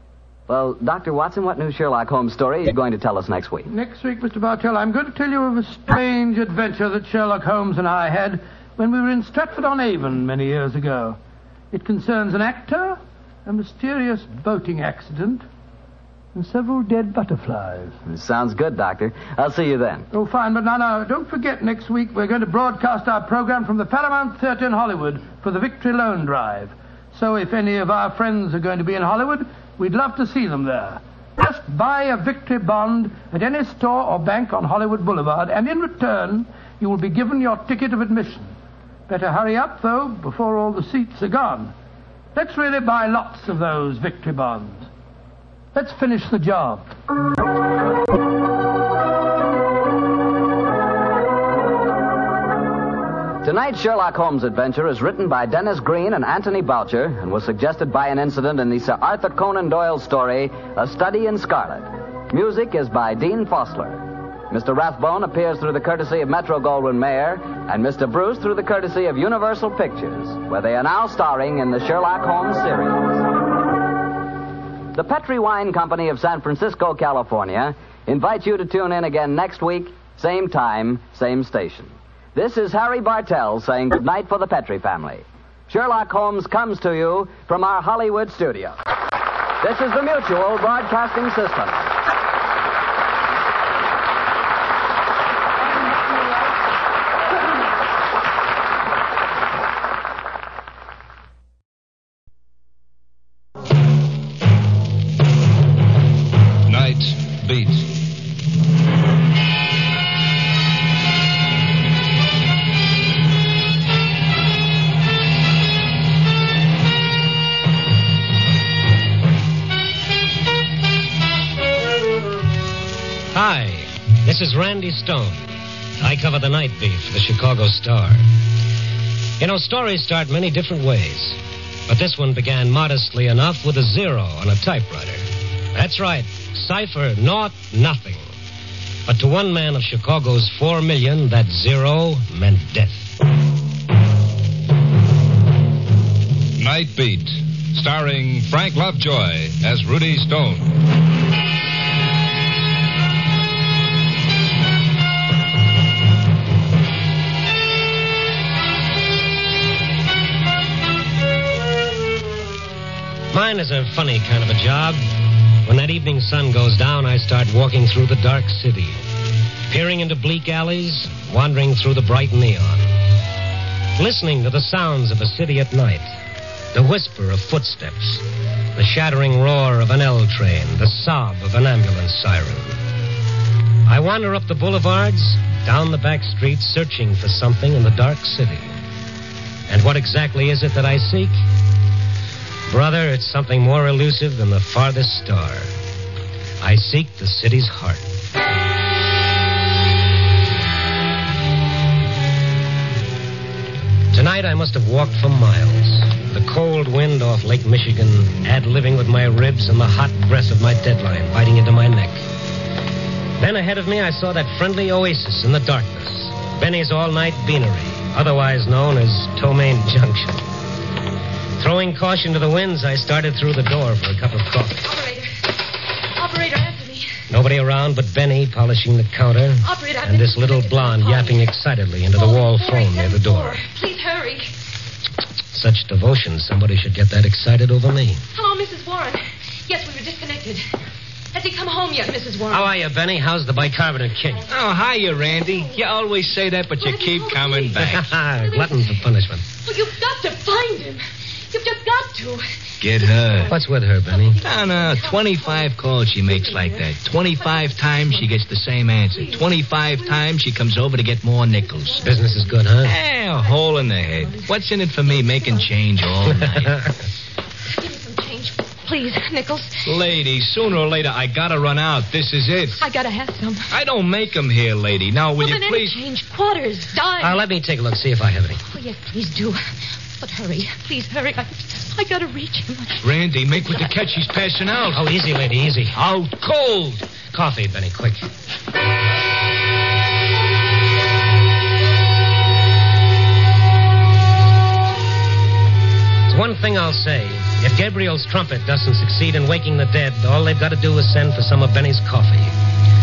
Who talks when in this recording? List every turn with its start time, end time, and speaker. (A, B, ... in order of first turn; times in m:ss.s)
0:00.5-0:03.7 A
0:03.7-0:11.2 B
0:11.7-0:15.4 B
0:16.3-0:18.0 B
0:18.1-0:20.0 A
0:20.1-0:38.5 B
0:39.1-0:41.7 B
0:42.3-0:44.9 B
0:45.7-0:46.9 B
0:53.4-1:13.2 A
1:14.9-1:28.8 A
1:29.6-1:31.9 A
1:46.6-1:47.9 C
2:03.3-2:05.4 D
2:06.0-2:08.3 D
2:09.4-2:18.3 D
2:19.1-2:23.1 D
2:26.6-2:30.6 C
2:43.3-2:45.0 D
2:45.6-2:49.0 D
2:49.7-2:52.9 D
2:54.0-2:56.1 D
2:56.7-2:58.2 D
2:58.8-3:02.8 D
3:03.9-3:08.7 D
3:09.7-3:11.4 D
3:12.7-3:15.7 D
3:16.6-3:18.0 D
3:24.1-3:32.2 D
3:33.4-3:40.4 D
3:41.6-3:44.8 D
3:44.8-3:45.5 E
3:46.1-3:47.2 E
3:47.3-3:53.6 D
3:49.6-3:51.4 E
3:52.1-3:54.5 E
3:55.5-3:58.2 D
3:58.3-4:00.7 E
4:01.3-4:02.7 E
4:02.5-4:04.4 D
4:04.5-4:08.1 F
4:05.2-4:05.8 E
4:06.8-4:15.7 E
4:07.8-4:09.4 D
4:12.8-4:13.5 F
4:13.5-4:14.4 D
4:14.4-4:21.9 F
4:16.3-4:18.3 E
4:19.1-4:20.2 E
4:21.7-4:22.5 E
4:22.0-4:22.9 D
4:22.8-4:26.7 F
4:23.4-4:23.6 E
4:26.5-4:26.8 D
4:27.7-4:29.9 E
4:29.9-4:32.8 F
4:32.7-4:33.7 E
4:33.7-4:36.0 F
4:35.4-4:37.4 E
4:37.2-4:38.6 D
4:38.6-4:39.6 E
4:40.2-4:43.0 E
4:43.0-4:45.1 F
4:44.9-4:46.0 D
4:47.1-4:48.3 D
4:56.3-5:02.5 D